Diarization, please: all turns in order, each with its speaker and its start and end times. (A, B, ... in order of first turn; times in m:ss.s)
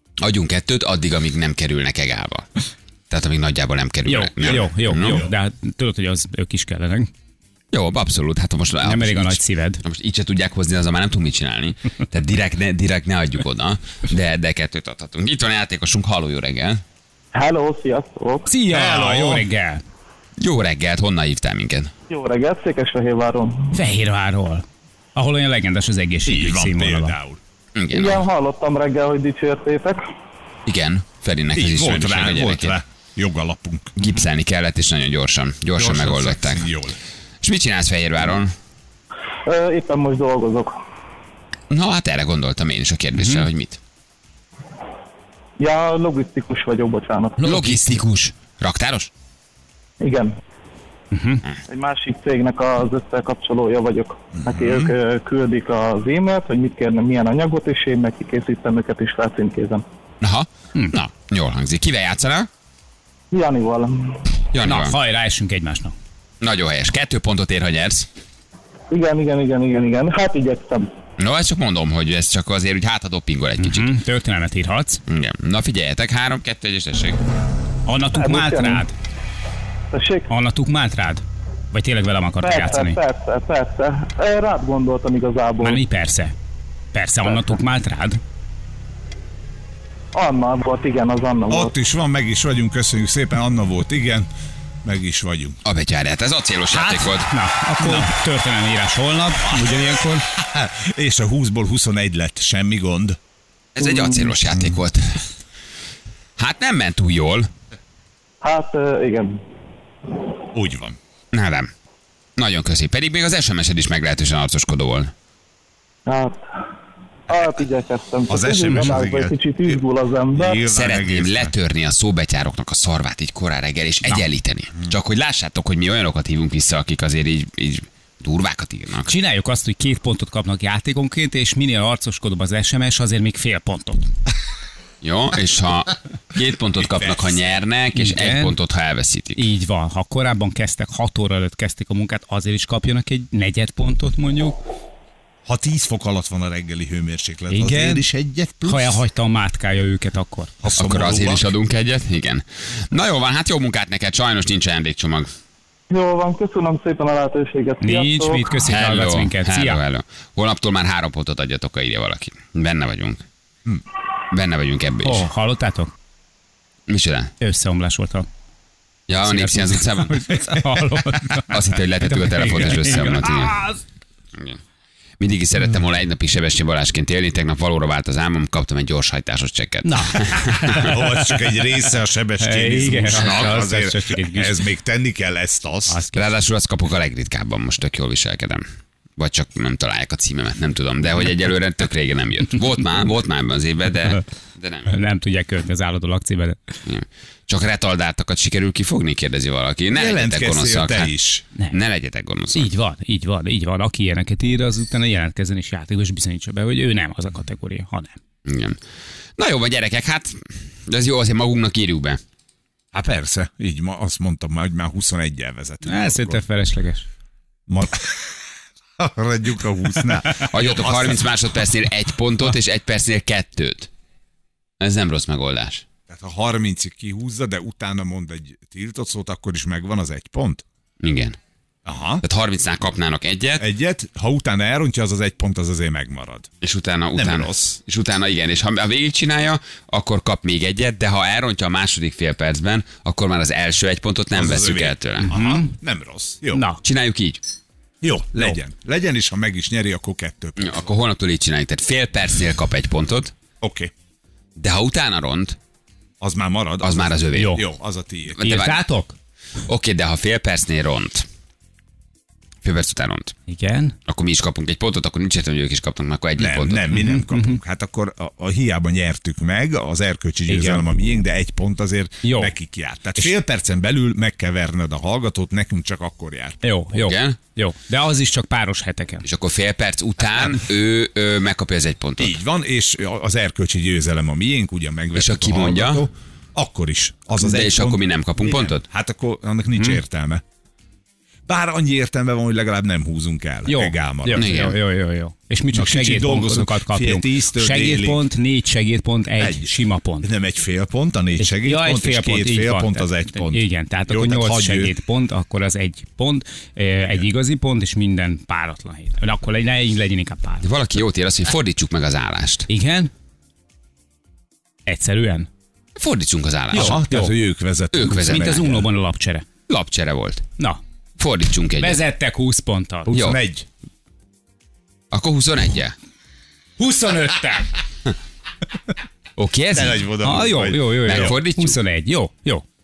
0:00.2-0:02.4 A
0:03.1-0:05.2 A
0:04.0-0:07.1 B
0:04.4-0:05.3 C
0:07.7-0:16.8 A
0:08.8-0:09.8 B
0:17.3-0:18.5 D
0:18.5-0:19.8 B
0:18.7-0:19.5 C
0:20.4-0:21.9 A
0:22.1-0:23.6 D
0:23.7-0:27.2 B
0:26.2-0:27.4 C
0:27.7-0:28.3 A
0:27.9-0:30.0 D
0:30.6-0:32.8 A
0:31.5-0:34.0 C
0:34.0-0:36.7 A
0:35.7-0:37.0 C
0:37.4-0:38.5 A
0:39.4-0:40.7 D
0:41.7-0:43.8 A
0:43.2-0:43.4 B
0:45.6-0:47.6 D
0:47.4-0:49.1 A
0:50.0-0:50.3 D
0:51.1-0:51.4 B
0:51.7-0:59.8 D
0:54.3-0:54.9 C
1:00.2-1:02.5 A
1:03.3-1:04.2 D
1:04.5-1:05.0 A
1:04.6-1:05.9 B
1:06.4-1:08.1 A
1:08.9-1:10.9 D
1:11.2-1:13.9 A
1:13.6-1:15.0 B
1:15.1-1:17.2 A
1:17.8-1:18.9 B
1:18.1-1:18.8 D
1:19.9-1:20.3 D
1:20.3-1:23.0 B
1:22.4-1:25.8 D
1:25.6-1:26.3 B
1:26.9-1:28.2 B
1:30.1-1:31.7 D
1:31.5-1:34.3 C
1:34.8-1:35.6 C
1:35.6-1:37.3 A
1:36.7-1:40.2 B
1:37.8-1:38.1 C
1:39.4-1:43.2 C
1:43.7-1:45.2 A
1:44.0-1:44.2 D
1:46.4-1:47.5 A
1:48.4-1:49.4 D
1:50.5-1:51.0 C
1:51.3-1:51.7 A
1:52.4-1:55.1 A
1:56.0-1:56.4 D
1:57.3-2:00.6 D
1:58.3-2:01.5 C
1:58.7-1:59.0 B
2:00.7-2:09.1 A
2:09.0-2:14.1 B
2:15.0-2:19.4 A
2:16.8-2:17.6 C
2:17.9-2:18.6 B
2:19.4-2:24.6 B
2:25.4-2:29.0 C
2:27.5-2:28.0 B
2:28.6-2:30.5 B
2:30.6-2:31.5 C
2:30.7-2:35.3 A
2:35.9-2:38.6 D
2:37.8-2:39.8 B
2:38.6-2:43.2 A
2:44.3-2:45.3 A
2:45.0-2:45.9 B
2:46.9-2:47.3 A
2:47.4-2:48.3 B
2:49.1-2:50.2 A
2:49.2-2:53.8 B
2:50.4-2:51.0 C
2:51.5-2:53.6 A
2:55.2-3:00.6 A
2:59.8-3:01.4 B
3:00.5-3:06.0 C
3:02.4-3:04.6 B
3:05.9-3:06.3 B
3:06.1-3:08.6 A
3:09.2-3:15.0 A
3:14.9-3:16.6 B
3:16.8-3:22.7 A
3:19.9-3:21.4 C
3:22.5-3:28.1 B
3:28.4-3:28.8 A
3:29.4-3:32.2 A
3:32.9-3:36.4 C
3:35.8-3:37.0 B
3:37.7-3:38.3 C
3:39.0-3:41.7 C
3:40.4-3:43.9 A
3:44.8-3:45.8 A
3:46.1-3:50.6 C
3:51.0-3:51.4 A
3:51.8-3:52.2 C
3:52.2-3:53.7 A
3:53.6-3:56.5 C
3:56.6-4:05.3 A
3:57.1-3:57.7 C
4:04.3-4:06.6 C
4:05.2-4:05.7 B
4:06.5-4:06.8 B
4:06.8-4:07.4 A
4:08.0-4:10.9 C
4:10.6-4:13.3 A
4:13.6-4:13.9 C
4:14.6-4:15.6 A
4:16.2-4:18.6 C
4:16.8-4:17.6 A
4:17.3-4:17.6 B
4:18.4-4:18.8 A
4:18.4-4:19.2 B
4:19.6-4:21.2 A
4:22.6-4:23.3 A
4:23.5-4:23.9 B
4:24.1-4:26.9 A
4:26.4-4:36.6 C
4:26.9-4:27.6 B
4:30.5-4:30.8 B
4:32.2-4:32.5 B
4:36.6-4:39.2 B
4:36.9-4:37.4 A
4:39.2-4:42.4 A
4:42.2-4:50.4 C
4:45.1-4:46.1 A
4:47.4-4:48.8 A
4:49.7-4:50.0 B
4:51.5-4:54.5 C
4:53.6-5:00.3 B
4:54.3-4:54.8 A
4:55.7-4:58.3 C
4:59.4-5:05.0 C
5:01.4-5:10.6 B
5:10.6-5:12.7 A
5:12.7-5:13.1 B
5:14.8-5:15.5 B
5:16.0-5:17.0 A
5:16.7-5:17.4 B
5:16.7-5:18.9 C
5:17.9-5:18.6 A
5:18.3-5:19.4 B
5:19.7-5:20.5 A
5:21.2-5:22.0 A
5:21.8-5:23.1 B
5:23.1-5:23.6 C
5:23.1-5:23.4 A
5:25.1-5:25.9 A
5:26.8-5:27.6 C
5:26.8-5:27.7 B
5:29.4-5:30.0 A
5:29.7-5:31.4 C
5:30.2-5:32.6 B
5:31.0-5:31.8 A